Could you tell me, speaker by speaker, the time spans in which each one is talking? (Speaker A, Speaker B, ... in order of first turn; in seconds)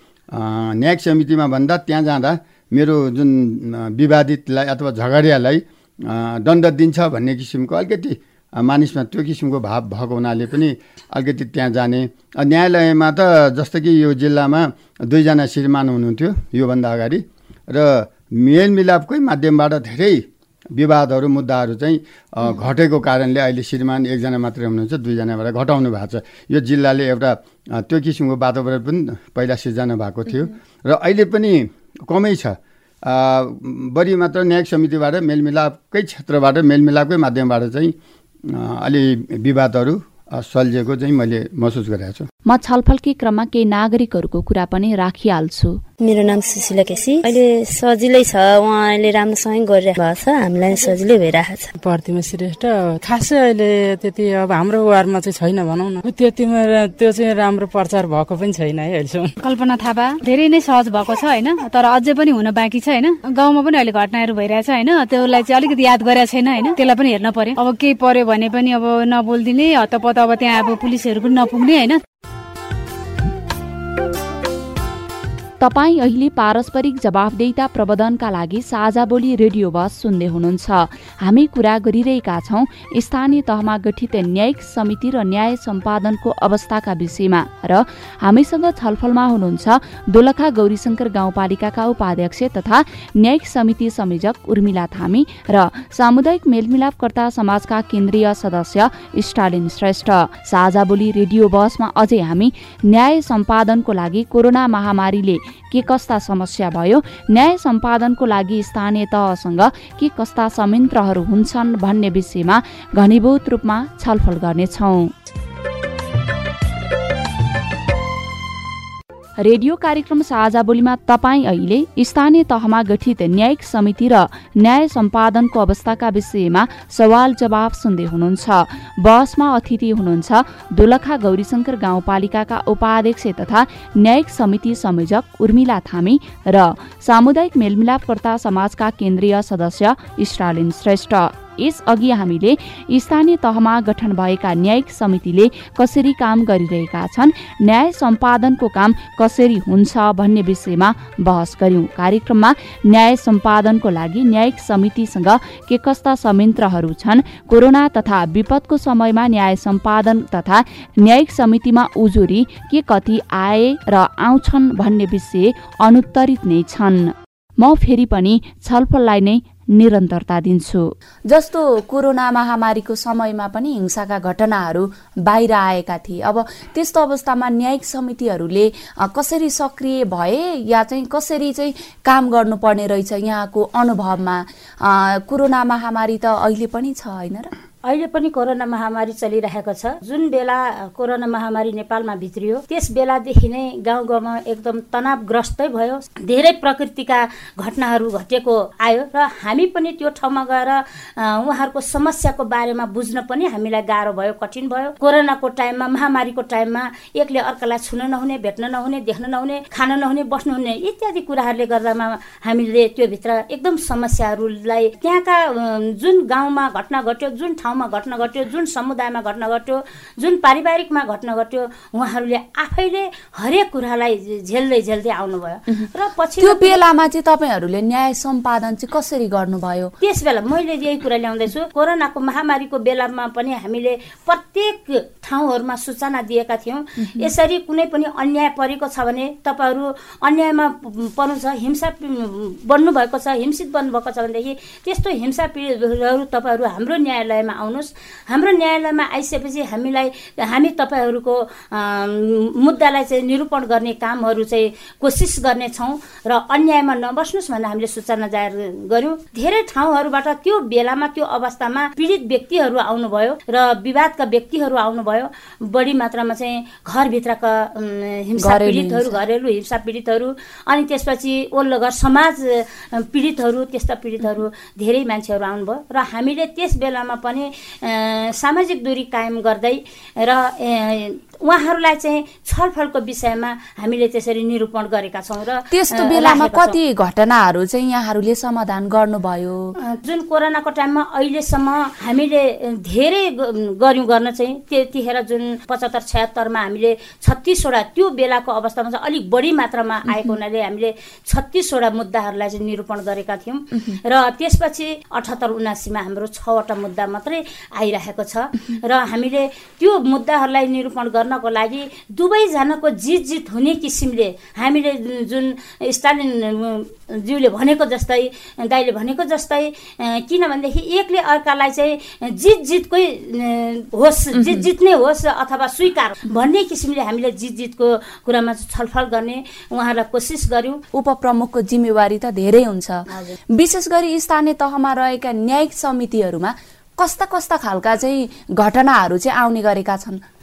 Speaker A: 0.3-20.2, 20.8-38.0, 38.5-42.3
Speaker B: 42.5-45.8, 75.6-115.1, 119.4-170.9
Speaker C: 46.0-51.7
Speaker D: 51.8-59.3
Speaker E: 59.4-72.0
Speaker F: 171.3-187.5, 226.4-229.9, 237.0-237.3, 268.4-269.1, 285.7-289.8, 330.9-340.2
Speaker G: 187.9-226.8, 230.0-286.8, 289.8-330.8, 333.1-333.4